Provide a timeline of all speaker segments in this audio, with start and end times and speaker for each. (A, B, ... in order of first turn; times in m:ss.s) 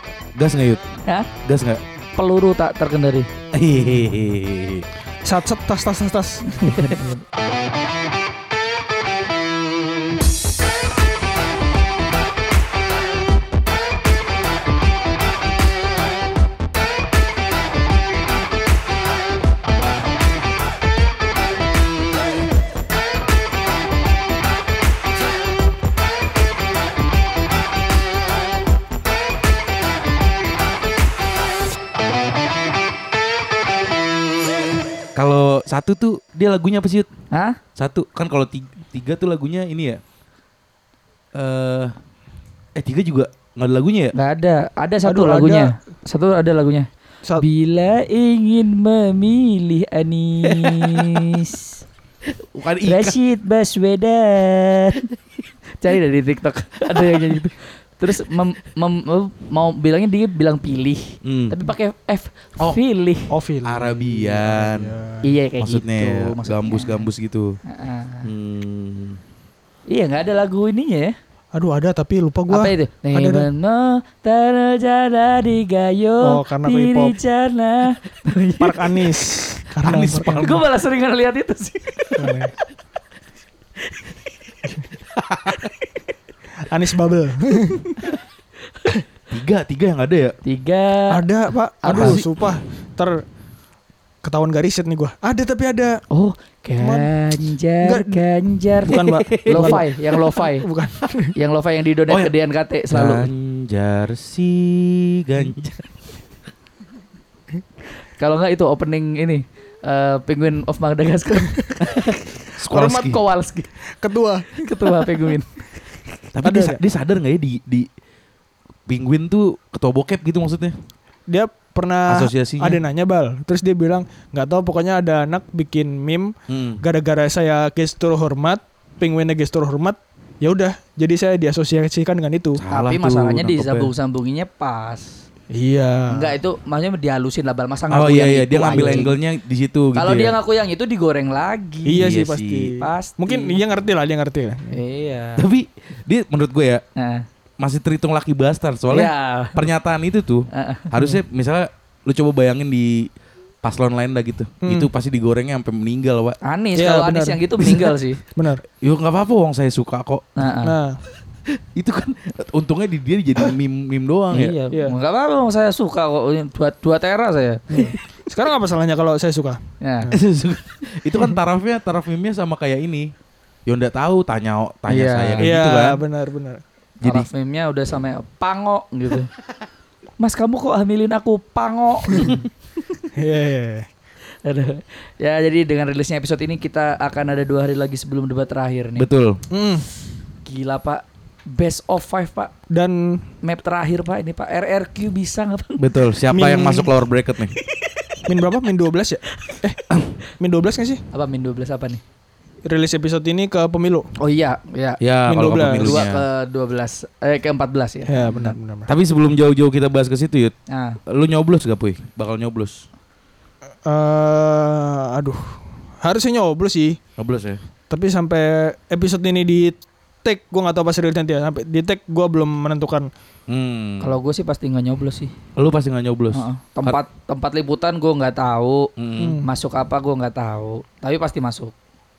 0:00.4-0:00.9 A
0:01.4-0:01.8 A
0:02.2-0:03.3 B
0:03.5-0:04.9 A
0:05.2-0:07.1 C
0:06.5-0:07.2 B
0:35.2-0:37.1 A
0:37.3-0:37.6 B
0:37.8-0:40.0 A
0:41.4-0:42.0 A
0:42.8-0:44.1 A
0:44.2-0:51.8 B
0:45.0-0:45.7 C
0:50.5-0:51.2 A
0:52.5-0:53.2 A
0:52.8-0:55.1 B
0:55.8-1:03.3 B
1:01.2-1:01.6 A
1:03.3-1:05.3 C
1:03.6-1:04.9 A
1:05.2-1:07.1 B
1:05.6-1:07.6 A
1:07.6-1:08.3 B
1:08.2-1:09.2 A
1:09.9-1:11.1 B
1:11.5-1:13.5 C
1:12.5-1:19.2 B
1:16.2-1:17.2 C
1:18.6-1:20.6 C
1:19.8-1:20.6 A
1:20.3-1:22.4 B
1:22.2-1:22.5 C
1:23.9-1:24.2 B
1:25.2-1:25.6 A
1:26.6-1:28.0 C
1:29.3-1:30.4 A
1:30.4-1:31.2 B
1:31.1-1:33.2 C
1:31.8-1:32.2 B
1:31.9-1:32.3 A
1:34.2-1:36.0 C
1:36.1-1:40.7 B
1:36.8-1:37.1 C
1:37.8-1:38.2 C
1:38.8-1:41.4 C
1:38.9-1:39.8 A
1:41.4-1:43.3 B
1:42.9-1:45.9 A
1:48.2-1:53.7 B
1:52.5-1:53.2 A
1:53.8-1:55.3 C
1:54.5-1:55.6 B
1:56.3-1:57.9 A
1:56.4-1:56.8 C
1:58.9-2:00.8 A
2:01.3-2:12.6 C
2:02.1-2:02.8 A
2:06.5-2:06.8 A
2:12.6-2:13.9 A
2:12.7-2:15.2 B
2:15.5-2:16.4 C
2:16.1-2:19.1 B
2:17.9-2:20.3 A
2:18.7-2:19.1 C
2:20.0-2:22.1 B
2:21.8-2:24.8 C
2:22.0-2:22.7 A
2:22.8-2:23.6 B
2:24.7-2:25.4 B
2:25.4-2:26.8 A
2:27.0-2:27.3 B
2:27.6-2:33.1 A
2:28.9-2:29.6 B
2:30.5-2:30.9 B
2:33.6-2:36.4 A
2:34.6-2:34.9 C
2:36.4-2:38.2 B
2:36.8-2:38.6 C
2:38.8-2:40.4 A
2:40.4-2:40.8 B
2:40.6-2:41.0 C
2:41.6-2:44.6 A
2:44.3-2:47.8 B
2:44.7-2:45.0 C
2:47.7-2:50.2 C
2:49.8-2:50.1 B
2:50.1-2:53.1 A
2:53.7-2:56.0 A
2:54.9-2:55.5 B
2:55.4-2:56.6 C
2:57.0-2:59.3 B
3:00.2-3:03.1 B
3:02.2-3:02.4 A
3:03.2-3:03.9 C
3:04.4-3:09.1 B
3:09.0-3:09.4 A
3:09.5-3:09.9 C
3:10.4-3:12.5 B
3:12.7-3:13.3 C
3:13.4-3:16.0 B
3:15.8-3:17.5 A
3:16.3-3:16.9 C
3:17.6-3:18.2 B
3:18.3-3:21.0 C
3:19.3-3:19.6 B
3:21.1-3:22.0 B
3:22.6-3:24.1 C
3:24.2-3:25.0 B
3:25.0-3:26.2 A
3:25.3-3:26.0 C
3:25.8-3:28.6 B
3:28.1-3:28.9 C
3:28.9-3:30.5 A
3:30.7-3:31.0 B
3:31.1-3:32.8 A
3:33.8-3:37.0 C
3:37.2-3:37.6 A
3:37.9-3:43.1 C
3:43.5-3:44.2 A
3:44.0-3:45.3 B
3:45.6-3:47.0 A
3:46.3-3:48.9 B
3:49.0-3:49.4 A
3:49.2-3:49.5 C
3:49.4-3:51.7 B